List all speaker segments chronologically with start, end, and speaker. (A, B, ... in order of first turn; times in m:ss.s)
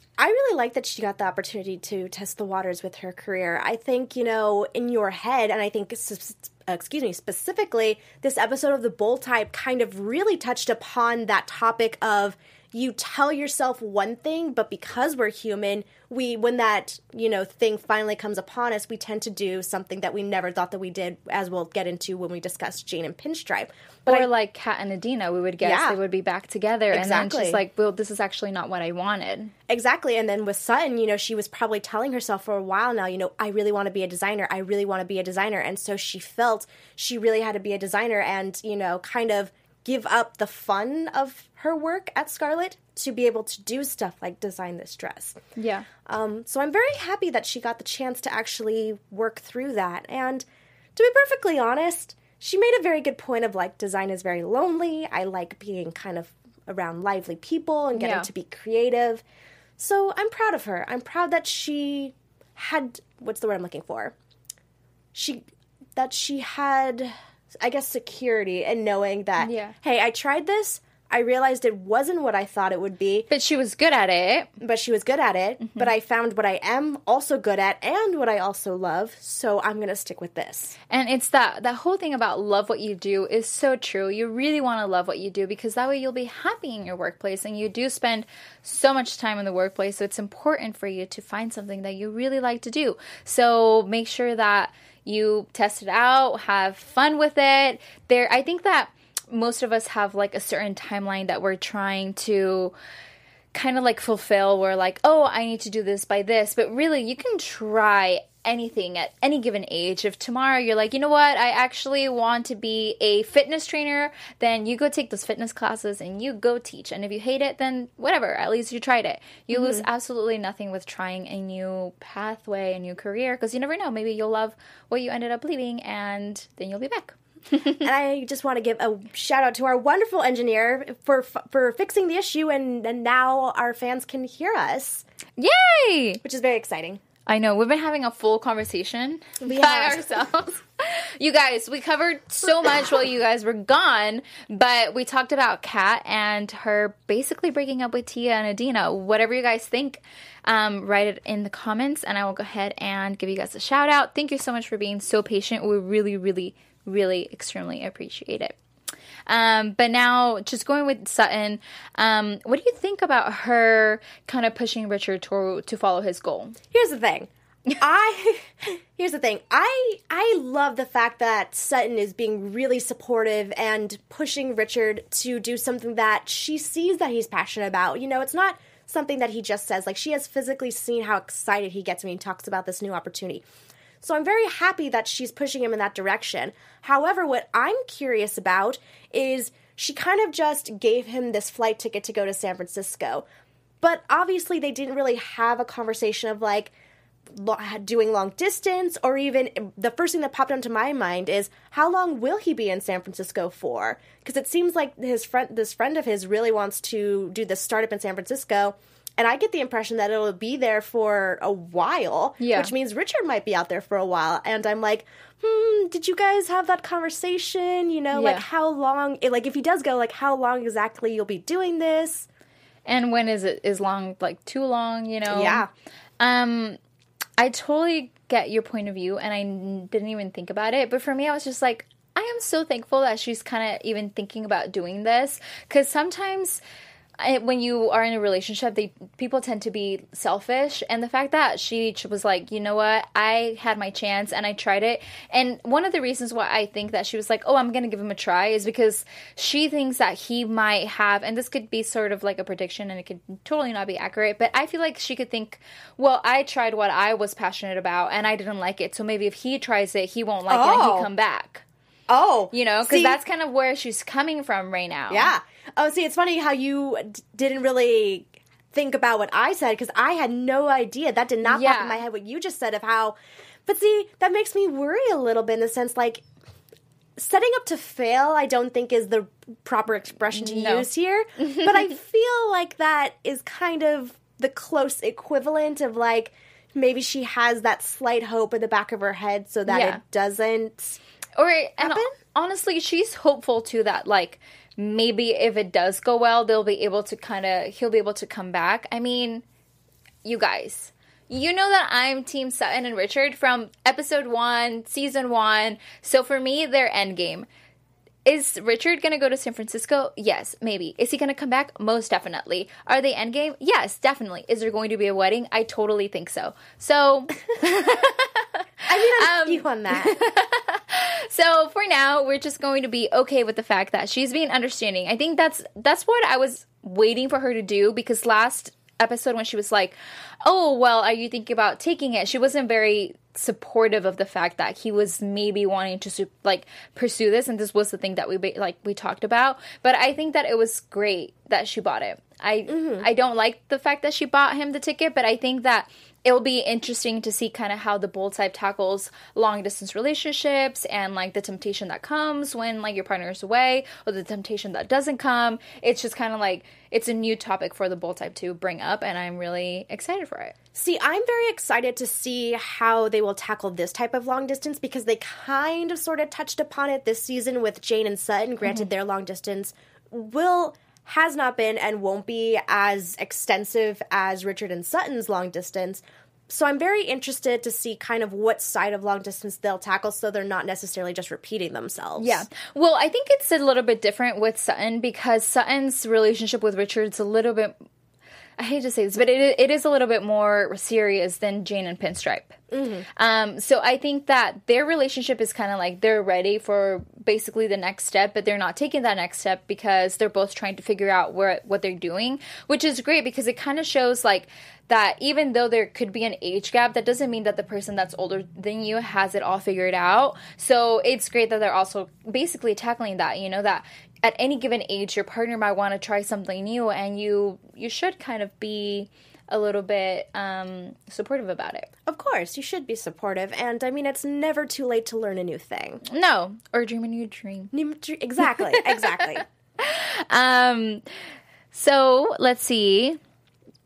0:00.2-0:24.3 A
0:24.0-0:29.5 B
0:25.6-0:26.0 A
0:26.9-0:27.6 A
0:29.7-0:45.4 A
0:45.6-0:45.9 B
0:46.0-0:50.4 A
0:51.0-0:59.2 A
0:57.9-0:58.3 B
0:59.8-1:04.1 A
1:05.1-1:05.4 A
1:06.0-1:13.3 A
1:09.4-1:09.7 B
1:13.3-1:14.5 B
1:14.6-1:20.8 A
1:15.6-1:15.9 B
1:20.9-1:42.7 B
1:43.5-2:07.8 B
1:59.5-1:59.8 A
2:07.8-2:15.0 A
2:15.4-2:16.2 B
2:16.2-2:17.0 A
2:17.3-2:38.6 B
2:19.4-2:20.2 A
2:39.3-2:46.6 B
2:46.7-3:03.4 A
3:04.0-3:13.2 A
3:13.8-3:16.7 A
3:17.3-3:42.3 A
3:32.4-3:32.7 B
3:38.1-3:38.4 B
3:42.8-3:45.6 B
3:45.3-3:45.7 A
3:46.2-3:46.8 B
3:47.4-3:56.6 B
3:57.2-4:21.6 B
4:20.5-4:21.1 A
4:22.1-4:23.2 A
4:22.5-4:25.3 B
4:25.1-4:33.1 A
4:31.4-4:32.0 B
4:33.6-4:36.2 A
4:37.2-4:51.0 A
4:40.3-4:40.9 B
4:49.7-4:50.0 B
4:51.4-4:59.4 B
4:51.8-4:52.1 A
5:00.2-5:07.5 B
5:08.2-6:00.5 B
5:18.9-5:20.2 A
5:42.7-5:43.1 A
6:00.7-6:22.5 A
6:22.2-6:27.7 B
6:28.6-6:32.6 B
6:32.7-6:33.0 A
6:33.2-7:01.9 B
7:02.1-7:06.0 A
7:06.0-7:07.7 B
7:07.7-7:09.4 A
7:08.5-7:09.2 B
7:09.8-7:11.0 B
7:11.7-7:13.2 B